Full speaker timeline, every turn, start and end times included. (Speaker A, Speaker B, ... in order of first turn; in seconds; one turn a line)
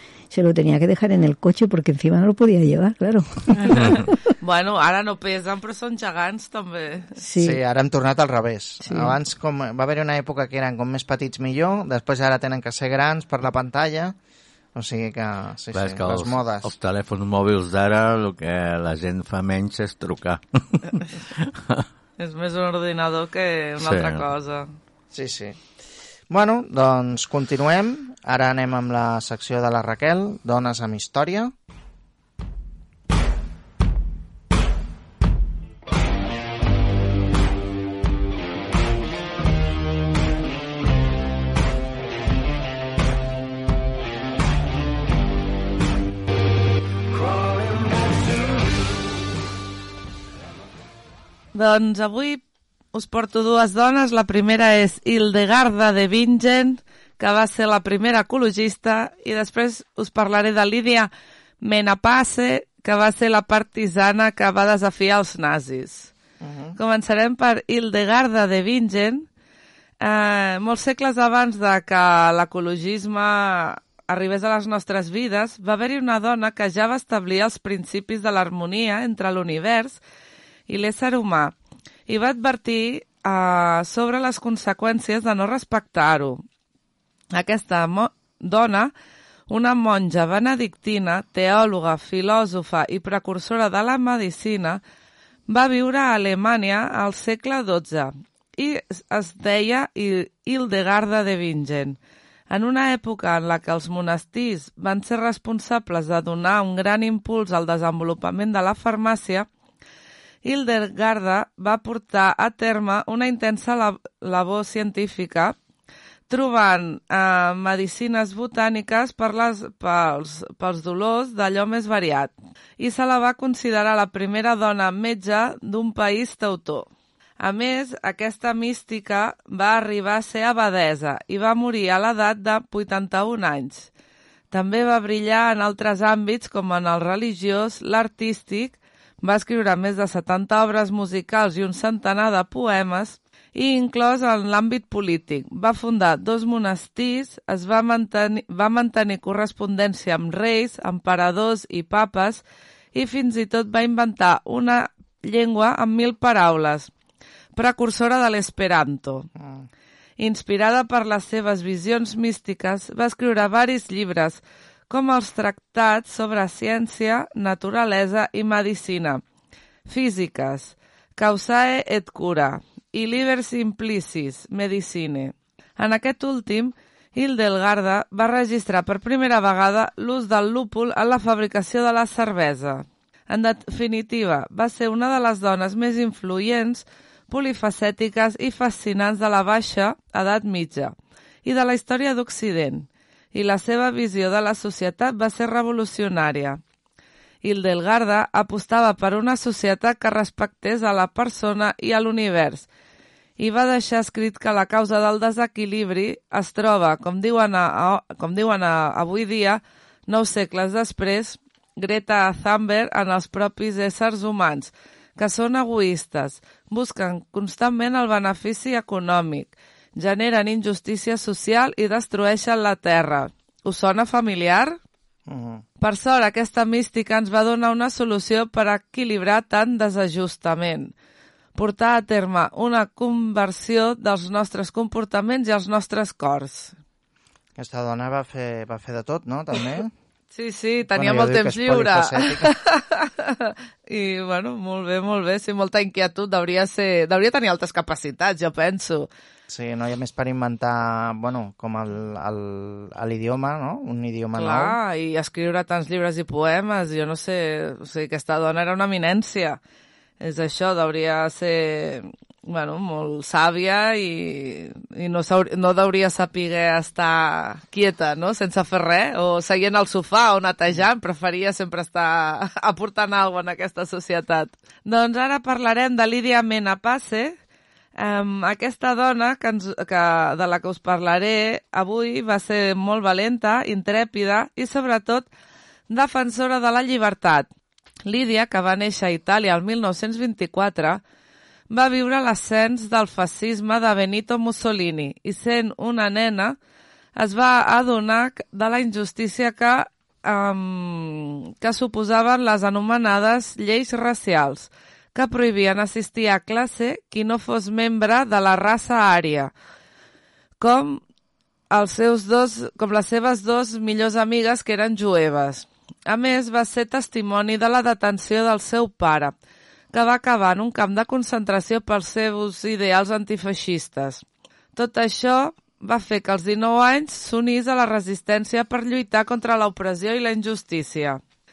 Speaker A: 0.3-4.1
Speaker B: 3.6-7.2
Speaker A: 7.2-7.6
Speaker C: 7.4-14.2
Speaker A: 8.8-9.2
Speaker C: 14.7-16.7
Speaker D: 15.7-21.8
Speaker B: 22.2-24.7
Speaker D: 23.8-24.3
Speaker C: 25.1-25.6
Speaker C: 26.3-31.5
Speaker B: 51.5-52.4
Speaker B: 52.9-61.1
Speaker B: 61.6-66.1
Speaker C: 66.4-66.8
Speaker B: 66.8-69.3
Speaker B: 70.0-80.0
Speaker B: 80.7-81.5
Speaker B: 82.1-86.4
Speaker B: 87.3-88.9
Speaker B: 89.5-94.8
Speaker B: 95.5-102.0
Speaker B: 102.5-109.5
Speaker B: 110.4-115.5
Speaker B: 116.3-126.9
Speaker B: 127.4-133.9
Speaker B: 134.5-152.4
Speaker B: 152.9-156.9
Speaker B: 157.5-159.3
Speaker C: 159.3-159.7
Speaker B: 160.2-169.2
Speaker B: 169.9-196.6
Speaker B: 197.4-202.7
Speaker B: 203.4-224.8
Speaker C: 225.3-225.6
Speaker B: 225.8-230.9
Speaker B: 231.5-236.7
Speaker C: 237.6-239.9
Speaker B: 240.3-249.1
Speaker C: 240.9-242.5
Speaker C: 249.5-254.8
Speaker B: 254.4-259.6
Speaker B: 260.2-277.4
Speaker B: 278.0-285.3
Speaker B: 285.9-287.5
Speaker B: 288.1-291.0
Speaker B: 291.7-296.6
Speaker B: 297.1-309.5
Speaker B: 310.6-311.0
Speaker B: 311.7-319.3
Speaker B: 319.9-324.2
Speaker B: 324.8-331.2